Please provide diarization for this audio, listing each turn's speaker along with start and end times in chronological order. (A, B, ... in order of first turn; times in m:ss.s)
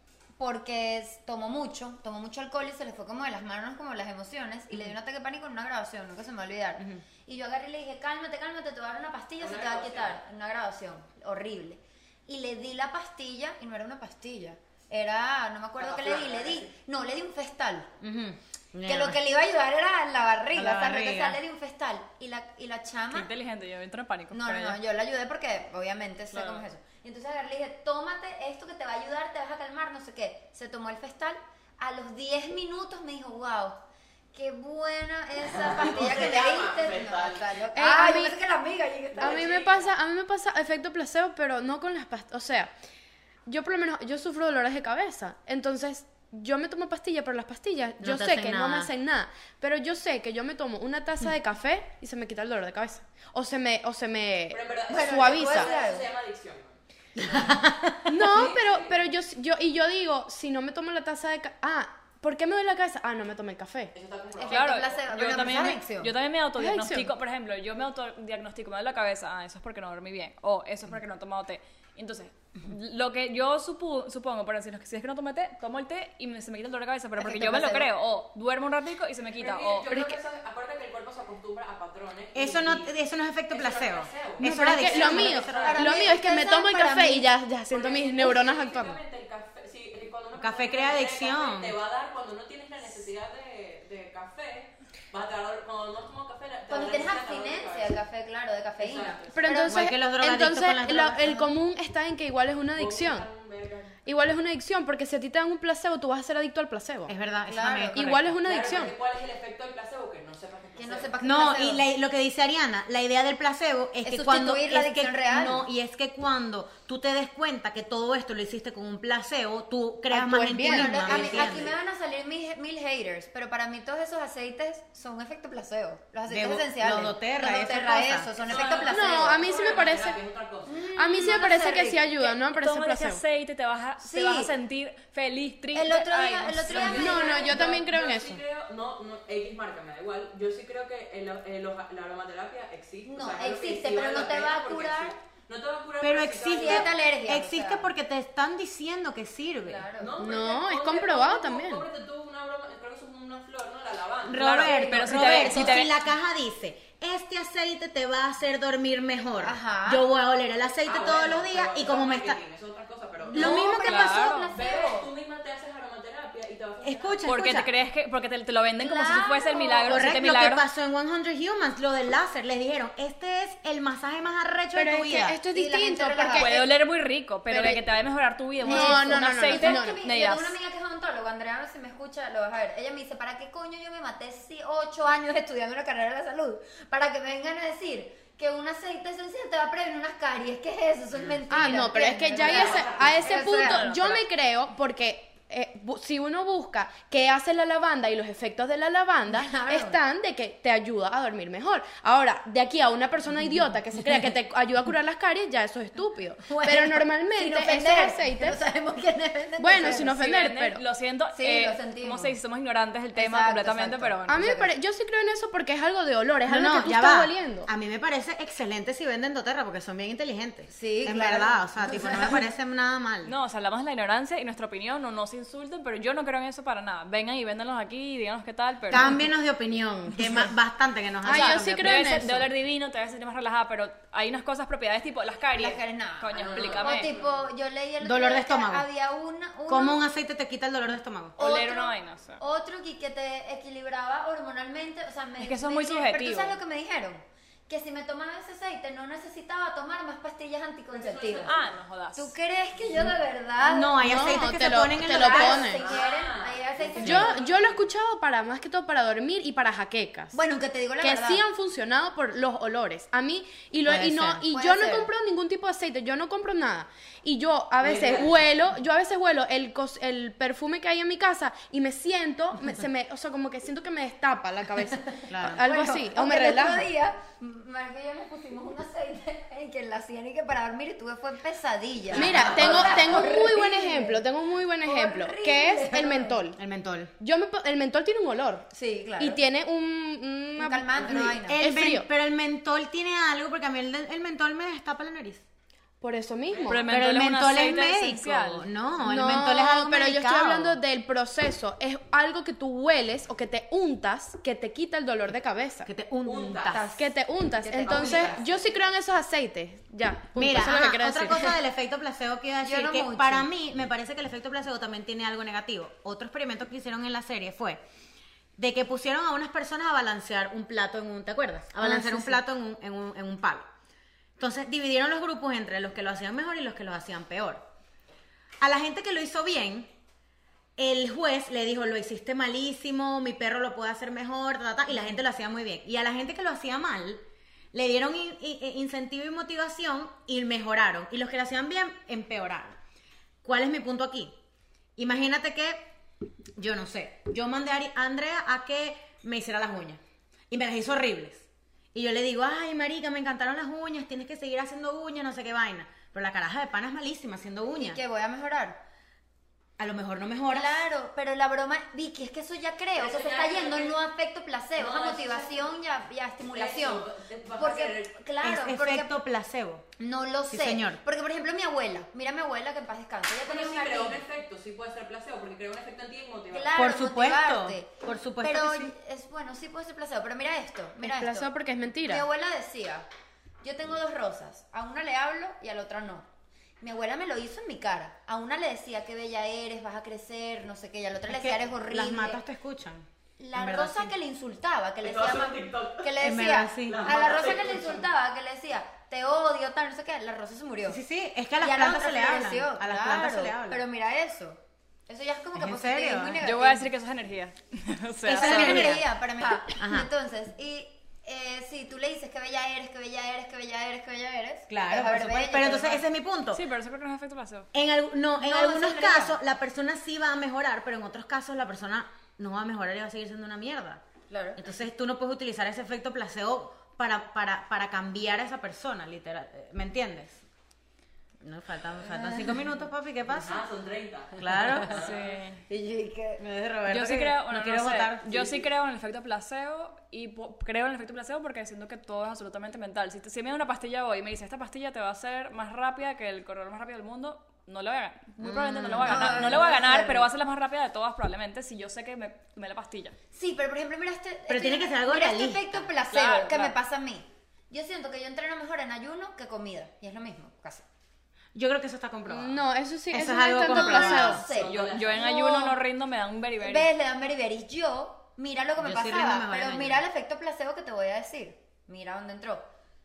0:00.4-0:17.9 A
0:09.4-0:10.2 B
0:15.8-0:16.7 B
0:18.0-0:19.2 C
0:18.8-0:23.3 A
0:20.5-0:21.4 C
0:23.1-0:24.8 D
0:24.3-0:33.8 A
0:26.3-0:26.6 D
0:34.3-0:39.8 A
0:35.5-0:37.6 B
0:37.7-0:38.4 E
0:39.2-0:39.7 B
0:39.2-0:42.7 E
0:43.4-0:55.7 E
0:48.0-0:48.9 C
0:54.5-0:57.5 B
0:54.9-0:56.0 A
0:57.2-0:58.1 C
0:58.1-1:03.9 E
0:58.2-0:59.0 B
1:03.9-1:04.8 B
1:04.4-1:06.1 A
1:04.5-1:19.9 D
1:06.6-1:07.1 E
1:17.2-1:17.9 A
1:19.4-1:22.9 B
1:19.9-1:20.2 E
1:22.3-1:25.8 C
1:23.5-1:26.0 B
1:24.4-1:29.0 E
1:25.2-1:27.3 A
1:27.7-1:38.0 B
1:30.4-1:31.8 C
1:36.7-1:39.8 A
1:38.8-1:39.7 B
1:39.3-1:43.3 E
1:39.6-1:41.4 C
1:42.7-1:44.0 B
1:44.0-1:47.1 E
1:47.1-1:48.5 C
1:47.5-1:48.0 A
1:47.9-1:48.9 E
1:48.4-1:51.2 B
1:50.8-1:51.8 A
1:51.2-2:01.7 C
1:54.0-1:55.6 A
2:00.1-2:01.5 E
2:00.6-2:09.4 A
2:06.3-2:08.3 C
2:08.4-2:10.9 B
2:08.9-2:10.2 E
2:10.6-2:12.1 A
2:11.0-2:13.2 E
2:12.2-2:17.0 D
2:14.0-2:14.5 A
2:15.7-2:17.6 A
2:16.6-2:26.9 B
2:16.9-2:18.4 E
2:23.0-2:25.2 A
2:26.0-2:29.9 C
2:26.5-2:27.9 A
2:29.6-2:30.2 A
2:30.0-2:34.5 B
2:30.2-2:31.9 E
2:34.2-2:42.4 C
2:34.3-2:35.9 D
2:34.6-2:35.8 A
2:39.4-2:40.0 A
2:40.8-2:43.6 B
2:43.3-2:45.1 A
2:43.3-2:44.2 C
2:43.4-2:44.5 D
2:44.5-2:47.3 B
2:46.8-2:47.7 C
2:47.2-2:50.6 D
2:48.8-2:50.1 A
2:49.8-2:55.4 C
2:54.7-2:56.7 E
2:55.5-2:56.7 A
2:56.3-3:00.6 D
2:57.5-2:57.8 E
2:58.6-3:14.2 A
2:58.6-3:00.0 E
3:11.5-3:28.6 E
3:12.3-3:13.8 B
3:19.3-3:20.0 A
3:26.5-3:30.2 A
3:29.6-3:30.8 E
3:29.8-3:34.4 D
3:31.3-3:32.3 A
3:33.1-3:34.7 A
3:34.3-3:37.7 E
3:36.4-3:43.3 C
3:40.7-3:42.4 A
3:43.2-3:49.2 D
3:48.9-3:52.0 C
3:51.2-3:52.5 E
3:51.2-3:57.1 D
3:55.5-4:00.0 A
3:56.3-3:57.5 B
3:58.0-3:58.9 C
3:59.7-4:01.4 C
4:01.4-4:02.4 D
4:01.4-4:11.6 A
4:05.4-4:06.6 D
4:10.9-4:11.8 B
4:11.4-4:12.3 D
4:12.1-4:17.5 A
4:13.6-4:15.7 C
4:14.0-4:15.8 E
4:15.6-4:17.8 B
4:17.0-4:20.4 E
4:17.0-4:17.3 C
4:20.3-4:21.4 A
4:21.0-4:36.8 E
4:23.8-4:24.4 C
4:24.2-4:25.1 A
4:27.8-4:28.4 B
4:35.2-4:44.2 A
4:35.3-4:35.7 C
4:42.1-4:46.6 E
4:42.1-4:43.0 B
4:42.5-4:42.9 C
4:44.8-4:46.4 A
4:46.6-4:47.1 C
4:47.2-4:48.7 E
4:48.7-4:49.4 A
4:49.2-4:52.0 E
4:50.6-4:51.6 A
4:51.0-4:55.4 C
4:56.0-4:56.8 E
4:56.5-4:57.0 B
4:56.6-4:58.7 D
4:56.9-5:00.8 C
4:59.0-5:05.9 E
5:05.8-5:06.8 C
5:06.2-5:06.9 B
5:06.7-5:08.6 A
5:07.0-5:11.5 E
5:07.8-5:08.4 B
5:10.3-5:17.8 C
5:12.6-5:13.5 A
5:18.6-5:23.7 C
5:21.8-5:22.3 A
5:24.4-5:27.6 C
5:28.6-5:29.9 C
5:30.8-5:42.8 C
5:43.4-5:44.3 C
5:45.0-5:45.9 C
5:46.6-5:58.0 C
5:57.7-5:58.8 A
5:59.8-6:00.8 C
6:00.5-6:09.2 A
6:03.0-6:04.0 B
6:04.8-6:05.7 B
6:06.4-6:08.2 B
6:08.4-6:09.9 C
6:10.0-6:14.2 A
6:10.5-6:11.0 C
6:13.4-6:16.8 B
6:16.5-6:17.9 A
6:16.7-6:18.9 C
6:18.4-6:21.5 A
6:21.0-6:22.2 E
6:22.0-6:23.1 A
6:23.6-6:26.3 A
6:26.8-6:32.4 A
6:31.3-6:34.1 C
6:33.4-6:41.0 A
6:35.0-6:36.2 B
6:36.2-6:37.1 C
6:36.8-6:38.1 B
6:40.9-6:43.8 C
6:41.6-6:46.9 A
6:45.5-6:46.4 C
6:46.4-6:49.0 D
6:48.2-6:49.1 C
6:48.2-6:56.0 A
6:49.6-6:50.1 C
6:54.7-6:56.6 C
6:56.5-6:57.7 D
6:57.7-7:04.0 C
6:58.4-6:59.4 A
7:04.3-7:04.6 A
7:04.5-7:10.4 C
7:11.4-7:13.6 C
7:12.2-7:12.4 A
7:13.3-7:15.3 B
7:14.4-7:15.0 C
7:14.9-7:15.6 D
7:15.7-7:16.4 A
7:16.4-7:18.5 C
7:16.9-7:33.2 D
7:28.4-7:29.6 C
7:28.4-7:30.3 A
7:33.3-7:40.8 A
7:34.5-7:35.9 C
7:36.1-7:36.7 D
7:41.5-7:44.4 C
7:42.3-7:44.4 E
7:43.6-7:45.8 A
7:44.4-7:45.3 B
7:44.6-7:46.9 D
7:46.6-7:52.7 A
7:48.8-7:50.0 C